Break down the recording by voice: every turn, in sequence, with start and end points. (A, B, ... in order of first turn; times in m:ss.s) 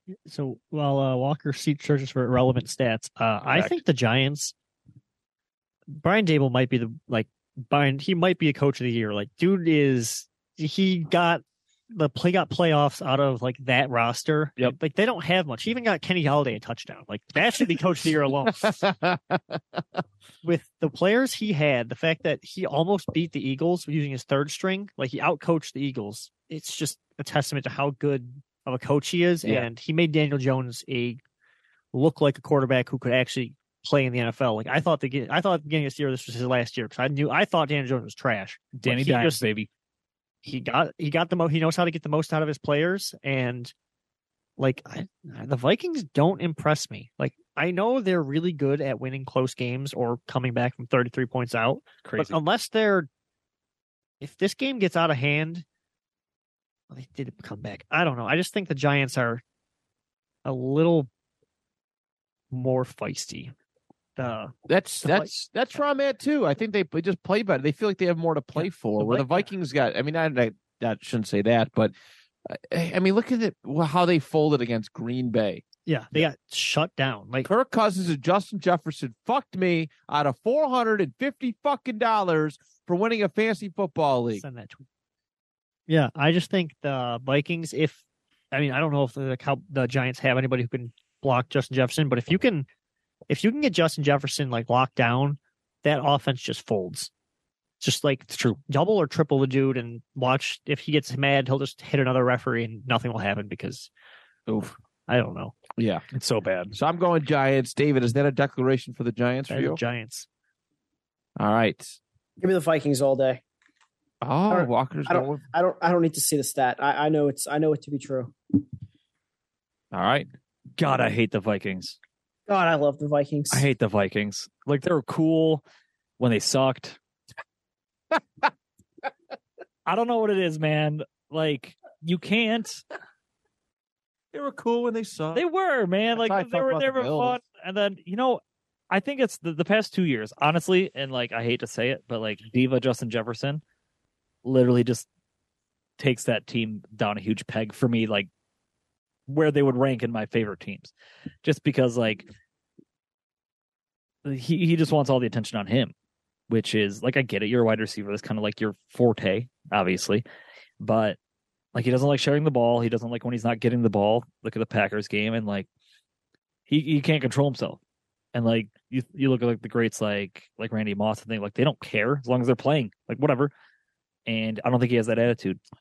0:00.2-0:04.5 A
0:03.5-0:03.8 B
0:05.9-0:18.8 A
0:18.6-0:19.8 C
0:20.4-0:31.2 A
0:29.4-0:29.7 C
0:31.9-0:39.4 A
0:38.8-0:39.7 B
0:40.4-0:43.7 A
0:44.6-0:53.1 A
0:52.0-0:52.4 B
0:54.2-0:55.6 A
0:56.9-0:59.4 A
1:00.4-1:01.1 A
1:02.5-1:03.5 A
1:04.2-1:05.3 A
1:04.7-1:11.9 C
1:08.6-1:09.5 A
1:12.4-1:15.6 C
1:15.9-1:17.5 A
1:17.4-1:24.4 C
1:24.3-1:24.8 A
1:25.9-1:32.7 A
1:33.3-1:37.1 A
1:37.8-1:43.9 A
1:38.3-1:38.6 B
1:44.5-1:44.7 C
1:45.1-1:45.6 A
1:45.8-1:46.0 C
1:46.1-1:46.7 B
1:46.7-1:49.8 C
1:49.5-1:50.3 A
1:51.4-1:52.0 C
1:52.4-1:53.4 D
1:54.2-1:55.4 C
1:54.5-1:58.3 D
1:59.9-2:00.3 C
2:00.8-2:02.0 B
2:02.5-2:03.7 D
2:03.5-2:05.6 B
2:06.2-2:07.0 B
2:09.8-2:12.8 B
2:14.3-2:15.4 C
2:15.3-2:23.6 B
2:16.1-2:17.4 C
2:24.4-2:25.1 B
2:26.0-2:28.3 B
2:29.3-2:30.9 B
2:31.4-2:32.3 B
2:34.2-2:35.9 B
2:36.5-2:40.2 B
2:40.8-2:41.2 B
2:41.7-2:45.7 B
2:46.7-2:47.8 B
2:48.3-2:53.5 B
2:54.2-2:55.6 B